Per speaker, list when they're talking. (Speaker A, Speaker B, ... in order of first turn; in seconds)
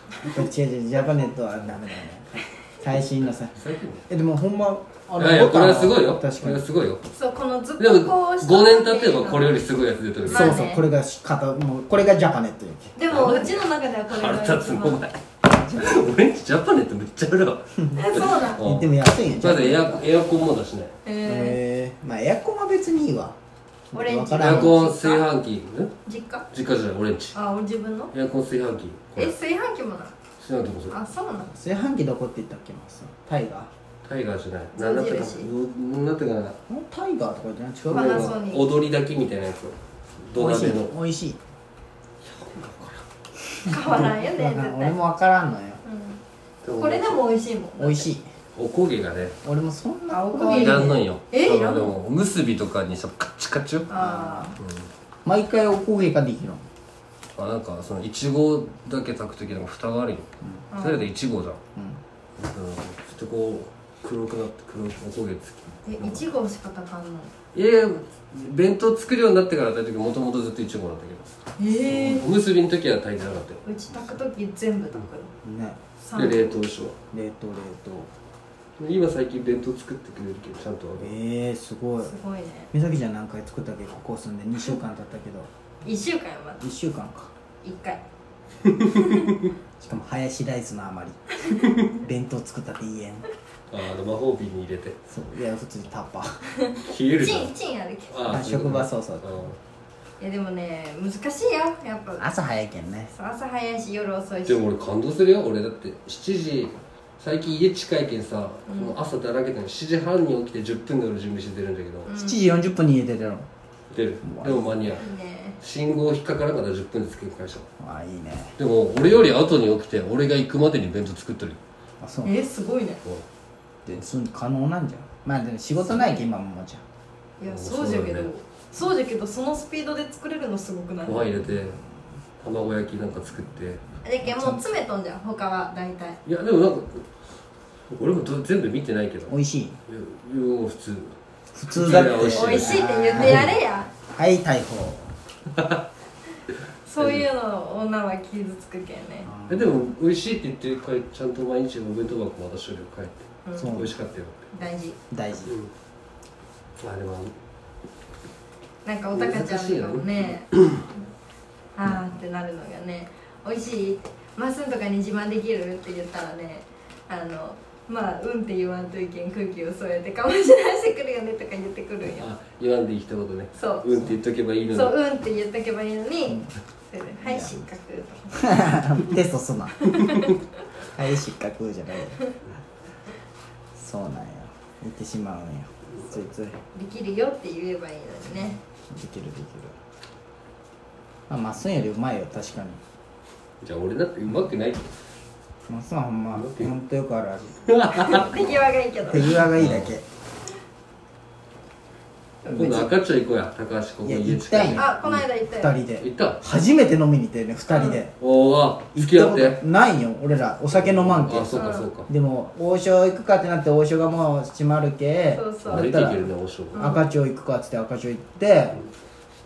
Speaker A: 0.3-3.5, 4.1-6.7, 10.2-13.0, 17.8-20.1, 21.2-23.4, 23.9-24.8, 31.5-33.7, 36.7-38.4, 40.3-41.4, 43.6-45.8, 47.8-48.2, 49.4-51.0, 53.9-54.5, 55.2-56.6, 61.7-62.0, 71.9-72.2, 75.4-75.8, 77.1-78.1, 81.0-82.1, 82.7-85.5, 86.6-87.3, 89.8-91.3, 91.9-93.2, 95.1-96.4, 98.3-99.4, 102.2-103.1, 112.1-113.5, 114.2-115.0, 117.8-118.5, 122.0-122.4, 123.8-126.8, 134.2-134.7, 139.3-139.8, 141.5-143.6, 144.1-145.1, 149.2-149.8, 153.6-153.9, 155.1-155.6, 161.8-162.2, 177.2-177.7, 178.3-179.9, 180.9-182.2, 183.8-186.6, 188.3-189.7, 191.3-192.8, 195.7-198.3, 199.1-200.0, 202.4-202.9, 204.0-208.1, 208.9-218.8
Speaker B: 3.5-4.0, 5.2-7.0, 7.8-10.6, 13.1-20.9, 24.4-25.9, 26.5-27.4, 28.1-29.4, 30.4-30.9, 34.0-36.6, 37.9-40.9, 42.2-43.0, 46.6-47.2, 48.5-49.4, 50.4-53.9, 54.6-54.9, 57.4-60.3, 60.8-61.6, 62.4-66.3, 67.5-71.3, 71.9-73.6, 76.1-77.0, 78.8-81.1, 93.7-95.0, 96.8-97.5, 98.1-99.6, 104.5-112.1, 113.9-115.1, 115.6-117.7, 118.6-121.6, 127.4-128.3, 131.0-131.8, 132.4-133.8, 136.2-137.1, 137.9-139.3, 139.9-141.2, 141.7-143.6, 147.0-147.3, 149.5-154.4, 155.4-155.7, 156.8-157.3, 159.1-160.8, 172.0-174.9, 193.6-194.9, 196.3-196.7, 197.7-198.6, 199.5-199.9, 202.5-205.2, 206.0-206.4, 208.2-209.6, 210.7-212.1, 215.7-217.0
Speaker C: 7.1-9.6, 10.2-10.8, 12.9-15.1, 17.9-18.7, 21.0-21.6, 23.9-25.3, 26.1-26.4, 27.3-28.1, 29.1-30.1, 30.9-31.5, 34.7-35.5, 37.9-38.7, 43.6-45.0, 45.8-46.2, 46.8-48.1, 50.1-52.0, 53.9-54.6, 60.7-61.1, 65.8-67.3, 71.6-72.3, 73.6-75.3, 76.0-76.6, 82.0-82.7, 85.8-86.6, 87.6-88.0, 88.9-89.3, 96.6-98.3, 100.2-102.3, 103.1-104.6, 108.7-108.9, 112.1-112.4, 114.9-115.6, 122.2-123.0, 125.8-126.2, 127.4-131.3, 134.0-136.2, 142.2-143.9, 146.8-149.3, 153.4-153.8, 154.5-155.0, 158.8-161.0, 161.8-172.3, 173.5-173.8, 174.7-178.6, 179.8-180.4, 186.7-188.6, 197.9-199.5, 204.7-205.7, 207.7-208.0, 211.6-211.9, 215.3-215.9, 216.7-217.1